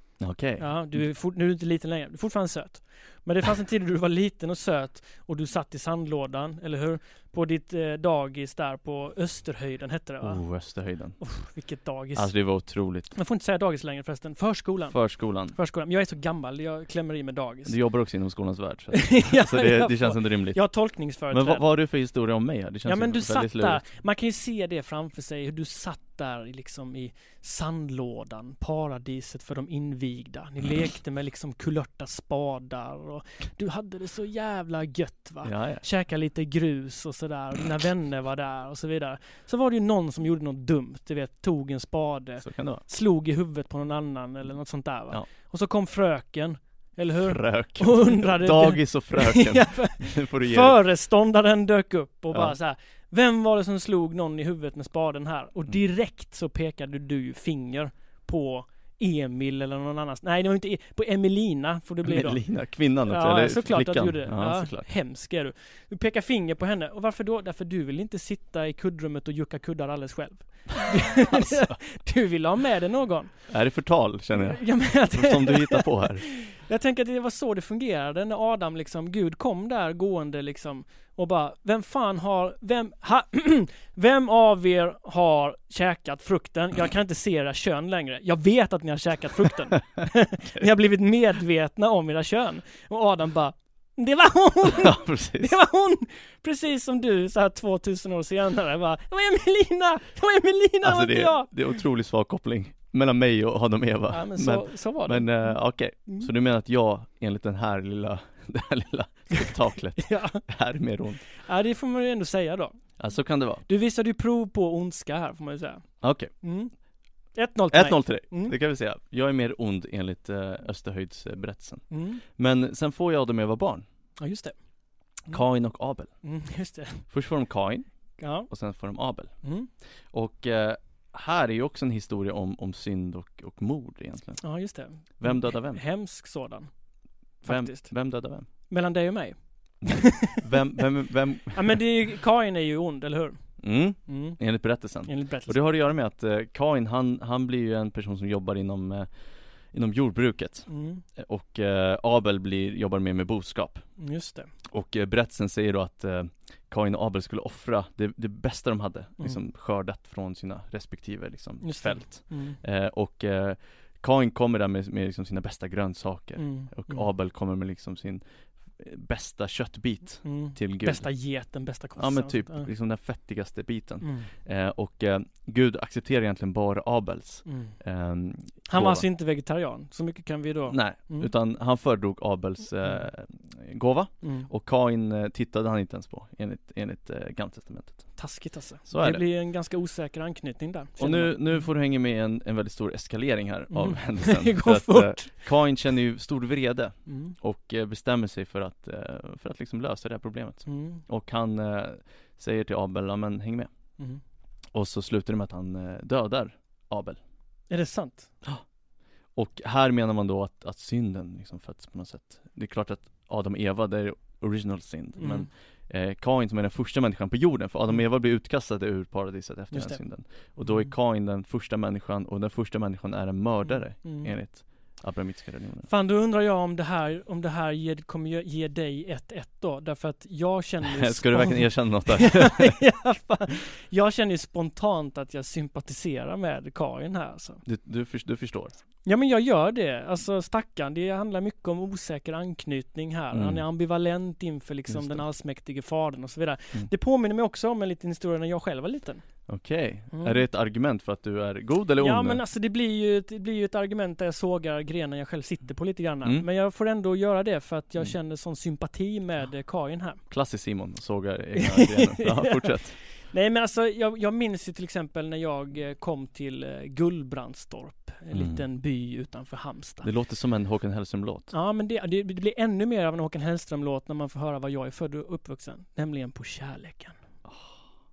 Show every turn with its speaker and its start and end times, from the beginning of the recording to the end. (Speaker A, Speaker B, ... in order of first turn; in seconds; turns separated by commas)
Speaker A: 0.2-1.0, Speaker B: 0.6-10.4, Speaker A: 10.2-11.2, Speaker B: 11.2-12.5, Speaker A: 12.2-13.1, Speaker B: 13.1-15.0, Speaker A: 14.9-15.6, Speaker B: 15.5-17.8, Speaker A: 17.7-20.7, Speaker B: 18.9-21.6, Speaker A: 21.3-23.8, Speaker B: 22.9-62.4, Speaker A: 35.4-35.9, Speaker A: 42.4-42.8, Speaker A: 47.2-50.8, Speaker A: 52.3-52.6, Speaker A: 62.0-64.9, Speaker B: 63.0-73.3, Speaker A: 71.3-71.8, Speaker A: 73.5-76.3, Speaker B: 74.3-101.5, Speaker A: 94.8-95.6, Speaker A: 100.8-111.2, Speaker B: 104.1-106.3, Speaker B: 109.3-110.4, Speaker B: 111.4-112.8, Speaker A: 113.0-113.7, Speaker B: 113.7-115.9, Speaker A: 116.0-116.3, Speaker B: 116.4-116.7, Speaker B: 117.3-118.5, Speaker A: 117.7-123.8, Speaker B: 121.9-122.2, Speaker B: 124.2-124.5, Speaker A: 125.3-126.1, Speaker B: 126.2-127.0, Speaker A: 127.1-127.9, Speaker B: 128.2-128.5, Speaker A: 128.5-129.3, Speaker B: 129.4-129.7, Speaker A: 130.1-134.5, Speaker B: 134.4-136.7, Speaker A: 135.2-135.8, Speaker B: 137.4-137.9, Speaker A: 137.5-138.5, Speaker B: 138.7-140.4, Speaker A: 140.4-141.8, Speaker B: 141.5-143.4, Speaker A: 143.6-149.1, Speaker B: 144.1-144.4, Speaker B: 145.1-145.6, Speaker A: 149.7-153.9, Speaker B: 150.7-151.0, Speaker B: 154.0-154.5, Speaker A: 154.7-168.2, Speaker B: 161.6-162.6, Speaker B: 166.4-167.1, Speaker A: 168.8-171.1, Speaker B: 170.2-172.7, Speaker A: 172.0-179.1, Speaker B: 174.0-174.3, Speaker B: 177.5-177.8, Speaker B: 178.7-181.3, Speaker A: 180.7-188.1, Speaker B: 184.2-184.5, Speaker B: 188.2-191.7, Speaker A: 188.9-189.2, Speaker A: 191.0-203.7, Speaker B: 193.7-195.3, Speaker B: 197.1-197.3, Speaker B: 200.7-201.0, Speaker A: 204.7-207.2, Speaker B: 207.7-208.3, Speaker A: 209.3-225.9, Speaker B: 215.2-215.5, Speaker B: 219.7-220.0, Speaker B: 220.7-220.9, Speaker B: 223.7-224.3, Speaker B: 225.9-237.6, Speaker A: 230.8-232.8, Speaker A: 237.7-238.7, Speaker B: 239.1-249.2, Speaker A: 243.3-243.6, Speaker A: 244.9-245.2, Speaker A: 249.5-252.4, Speaker B: 250.1-250.4, Speaker B: 252.0-260.2, Speaker A: 260.3-263.0, Speaker B: 261.6-270.1, Speaker A: 268.3-268.6, Speaker A: 270.0-271.5, Speaker B: 271.5-277.2, Speaker A: 277.5-277.8